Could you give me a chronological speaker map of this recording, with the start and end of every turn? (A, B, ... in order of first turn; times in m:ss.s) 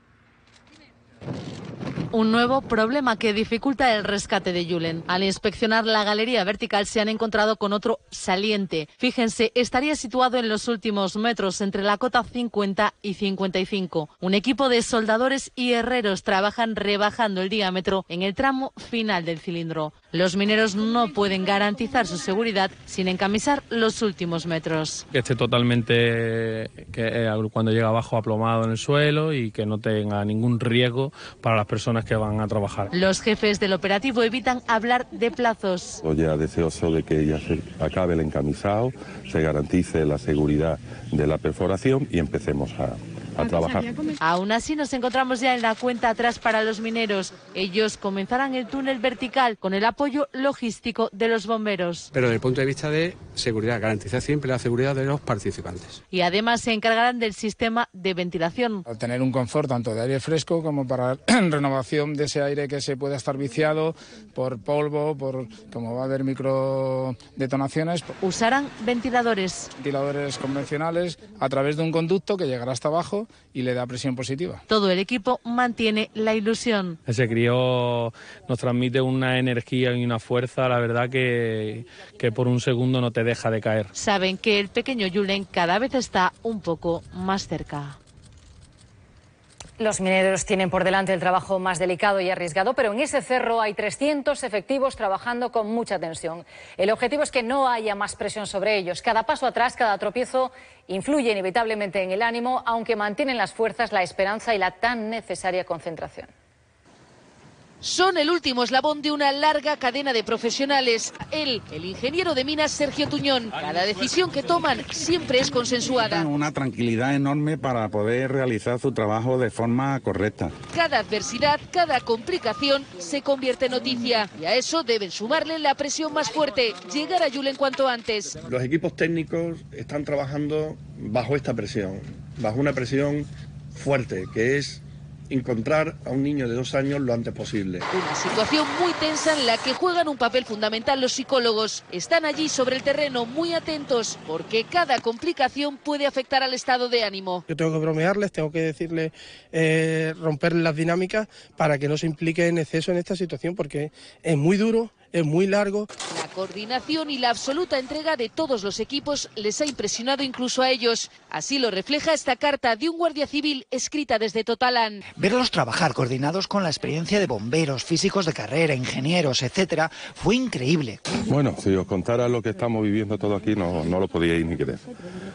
0:02.1-0:25.0 A
0:25.1-0:32.9 B
0:32.9-0:36.0 A
0:36.0-0:43.9 C
0:44.2-0:52.1 A
0:52.1-0:56.0 D
0:56.1-0:58.8 A
0:58.9-1:08.1 E
1:08.2-1:09.7 A
1:09.8-1:14.6 E
1:14.7-1:17.0 A
1:17.1-1:23.9 B
1:23.9-1:28.0 A
1:29.8-1:46.3 F
1:47.8-1:56.3 G
1:56.2-2:00.5 H
2:00.7-2:08.4 G
2:08.4-2:17.8 I
2:17.9-2:27.4 G
2:27.5-2:35.9 J
2:36.1-2:45.0 G
2:45.2-2:51.0 K
2:51.2-2:54.9 C